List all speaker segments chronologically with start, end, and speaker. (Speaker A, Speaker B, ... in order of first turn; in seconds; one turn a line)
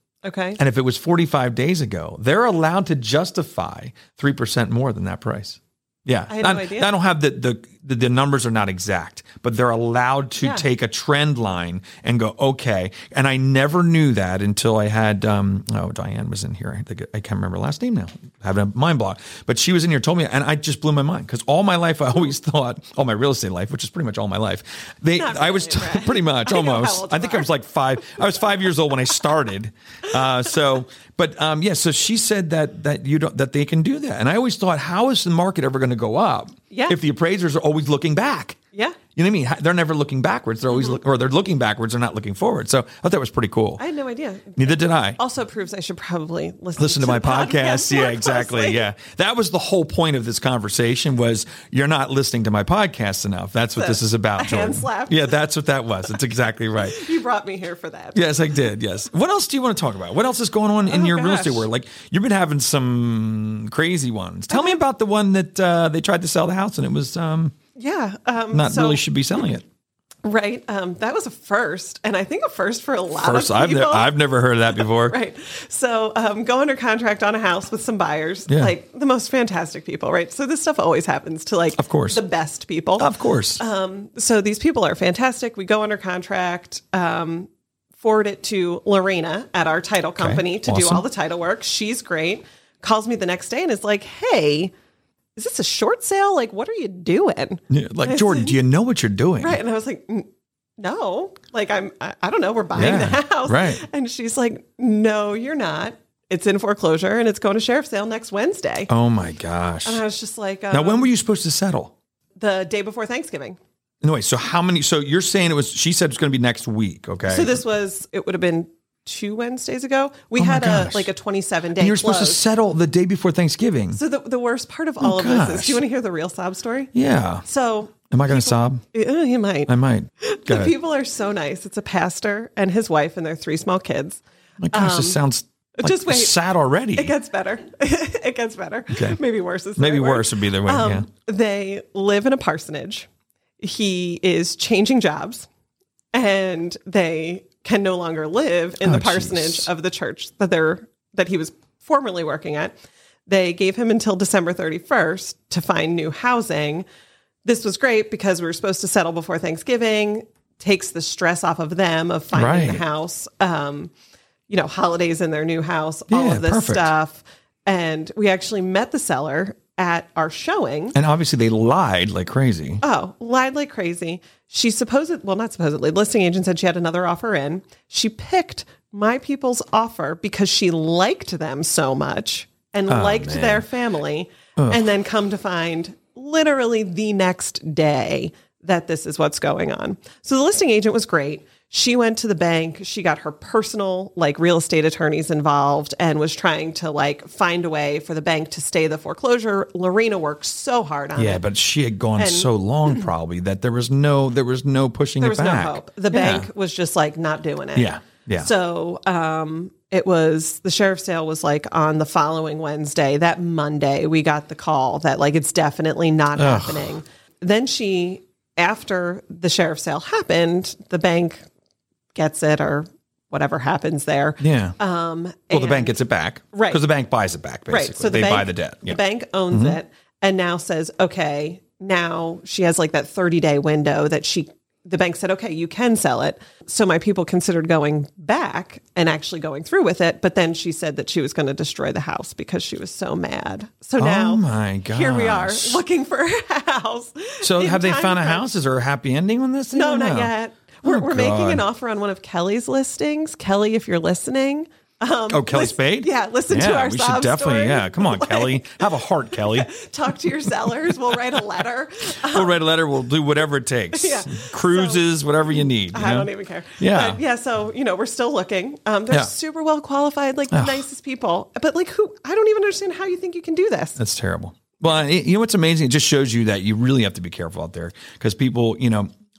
Speaker A: 0.2-0.6
Speaker B: 0.6-38.6
Speaker A: 6.3-6.9
Speaker A: 10.4-10.7
Speaker A: 25.1-27.5
Speaker A: 36.7-37.0
Speaker B: 39.1-43.8
Speaker A: 43.8-48.8
Speaker B: 44.5-45.2
Speaker B: 46.8-57.1
Speaker A: 53.8-55.4
Speaker A: 56.8-58.5
Speaker B: 58.1-67.5
Speaker A: 60.9-61.7
Speaker A: 64.5-64.8
Speaker A: 67.8-69.0
Speaker B: 68.5-69.6
Speaker A: 70.2-74.1
Speaker B: 73.2-75.2
Speaker A: 74.8-94.7
Speaker B: 81.8-82.2
Speaker B: 83.0-83.6
Speaker B: 90.2-91.0
Speaker A: 95.4-98.6
Speaker B: 97.7-99.6
Speaker A: 99.4-100.3
Speaker A: 100.8-108.9
Speaker B: 102.8-103.8
Speaker B: 108.9-110.0
Speaker A: 109.8-111.0
Speaker B: 110.7-111.9
Speaker A: 112.4-113.6
Speaker B: 114.0-117.6
Speaker A: 117.3-122.4
Speaker B: 120.4-121.1
Speaker B: 121.8-124.0
Speaker A: 123.9-126.9
Speaker B: 125.0-125.8
Speaker B: 126.9-127.4
Speaker A: 127.4-129.7
Speaker B: 128.1-128.8
Speaker B: 129.7-130.7
Speaker A: 130.2-135.2
Speaker B: 134.6-137.1
Speaker A: 135.8-136.4
Speaker A: 136.9-143.1
Speaker B: 138.9-139.2
Speaker B: 139.8-141.1
Speaker A: 143.6-145.5
Speaker A: 146.1-152.7
Speaker B: 148.8-149.7
Speaker A: 153.3-156.9
Speaker A: 157.4-163.9
Speaker B: 162.3-162.8
Speaker A: 164.5-170.9
Speaker B: 166.1-166.9
Speaker B: 170.9-172.8
Speaker A: 172.8-201.4
Speaker B: 182.9-183.7
Speaker B: 184.6-184.9
Speaker B: 201.2-206.5
Speaker A: 202.2-203.1
Speaker A: 205.2-221.5
Speaker B: 207.7-208.5
Speaker B: 216.3-217.0
Speaker A: 222.1-225.9
Speaker B: 224.4-224.8
Speaker B: 225.5-229.0
Speaker A: 226.5-226.8
Speaker A: 227.7-248.4
Speaker B: 229.5-229.8
Speaker B: 244.0-245.8
Speaker B: 247.4-250.3
Speaker A: 249.7-262.6
Speaker B: 250.8-251.6
Speaker B: 255.3-259.7
Speaker B: 262.2-267.2
Speaker A: 263.9-265.1
Speaker A: 265.6-274.0
Speaker B: 270.5-270.8
Speaker B: 274.0-279.1